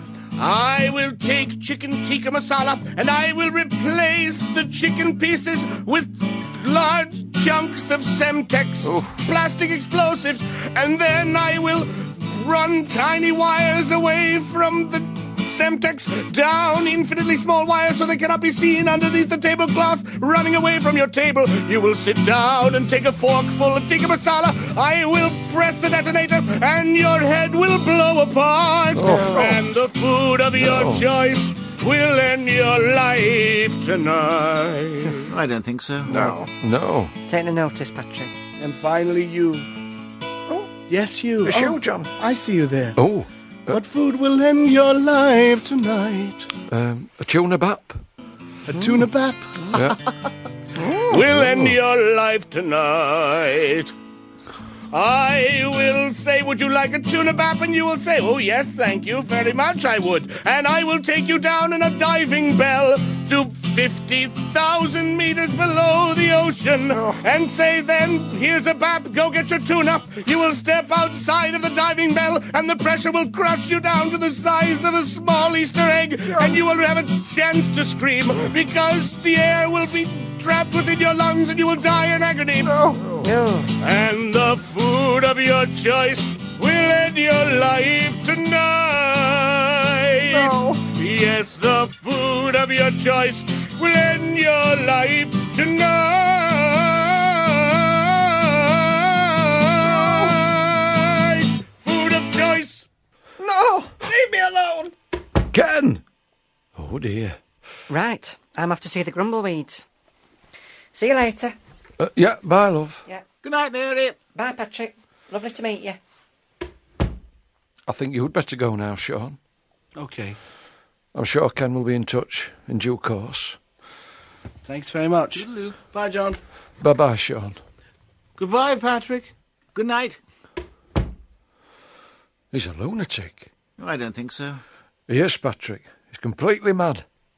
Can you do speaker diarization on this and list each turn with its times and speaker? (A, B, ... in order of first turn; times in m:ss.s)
0:00.4-0:35.4 A
0:29.0-0:29.4 B
0:29.3-0:29.6 C
0:30.6-0:31.0 B
0:35.3-0:36.3 D
0:36.0-0:36.5 C
0:36.5-0:37.1 B
0:37.2-0:38.3 E
0:38.6-0:39.7 F
0:40.9-0:43.0 F
0:41.5-0:42.0 B
0:43.0-0:43.8 B
0:43.7-0:46.5 F
0:46.7-0:48.0 B
0:48.7-0:50.3 F
0:50.8-0:51.2 C
0:51.1-0:53.9 A
0:51.4-0:51.7 B
0:54.9-1:22.8 A
1:06.9-1:07.2 C
1:16.3-1:16.6 C
1:22.6-1:23.3 C
1:23.2-1:23.7 E
1:23.8-1:42.9 A
1:30.3-1:30.8 C
1:39.8-1:40.4 C
1:43.4-1:44.9 C
1:45.5-1:46.0 B
1:46.8-1:47.4 B
1:47.9-1:49.8 E
1:50.9-1:51.6 E
1:52.0-1:53.1 B
1:53.4-1:54.2 D
1:54.3-1:56.0 E
1:57.9-1:59.4 B
2:00.0-2:00.4 F
2:01.1-2:03.6 B
2:04.7-2:06.4 F
2:05.4-2:05.7 D
2:06.8-2:07.6 B
2:08.4-2:09.3 F
2:09.8-2:10.2 D
2:12.5-2:13.5 B
2:13.8-2:14.6 D
2:15.1-2:17.0 B